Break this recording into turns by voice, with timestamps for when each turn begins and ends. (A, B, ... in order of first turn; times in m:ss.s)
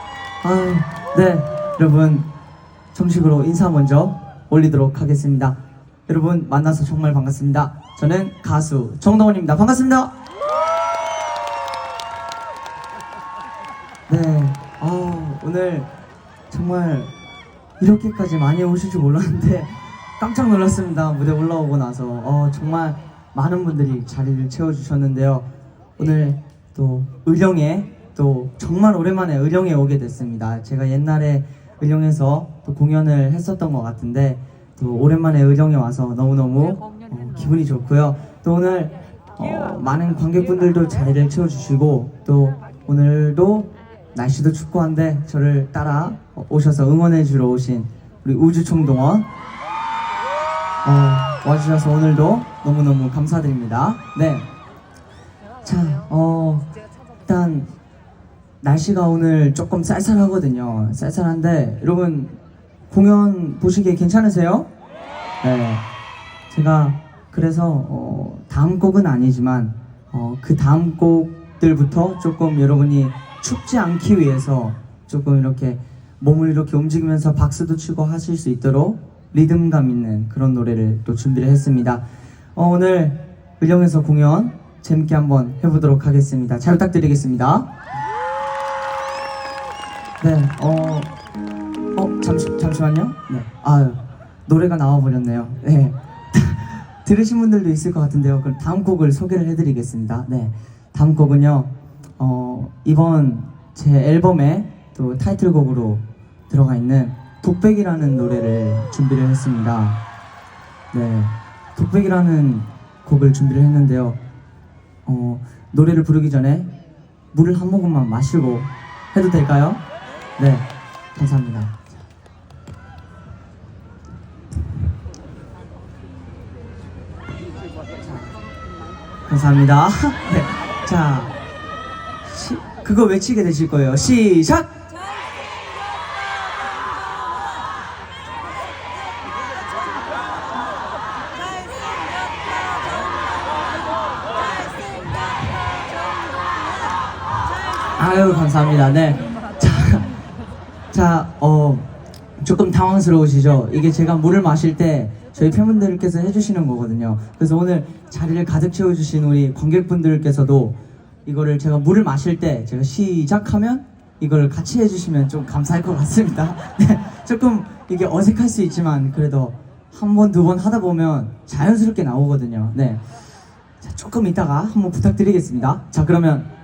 0:00.4-0:02.3 A
0:02.9-0:10.1 A
0:14.1-0:15.9 A
0:16.5-0:17.1 A
0:17.8-0:25.4 A
0:26.0-0:49.3 A
0:50.8-0:54.5 A
0:55.6-0:56.7 A
0:57.2-0:57.7 A
0:58.6-1:02.4 A
1:02.9-1:04.7 A
1:05.4-1:05.8 A
1:06.5-1:22.0 A
1:22.5-1:27.7 A
1:30.2-1:31.1 A
1:31.9-1:50.0 A
1:50.9-1:54.2 A
1:55.0-1:56.7 A
1:57.3-1:59.8 A
2:00.4-2:01.8 A
2:08.0-2:08.4 A
2:09.3-2:11.3 A
2:12.2-2:14.7 A
2:27.9-2:30.1 A
2:30.9-2:31.9 A
2:32.4-2:53.0 A
2:53.8-2:56.5 A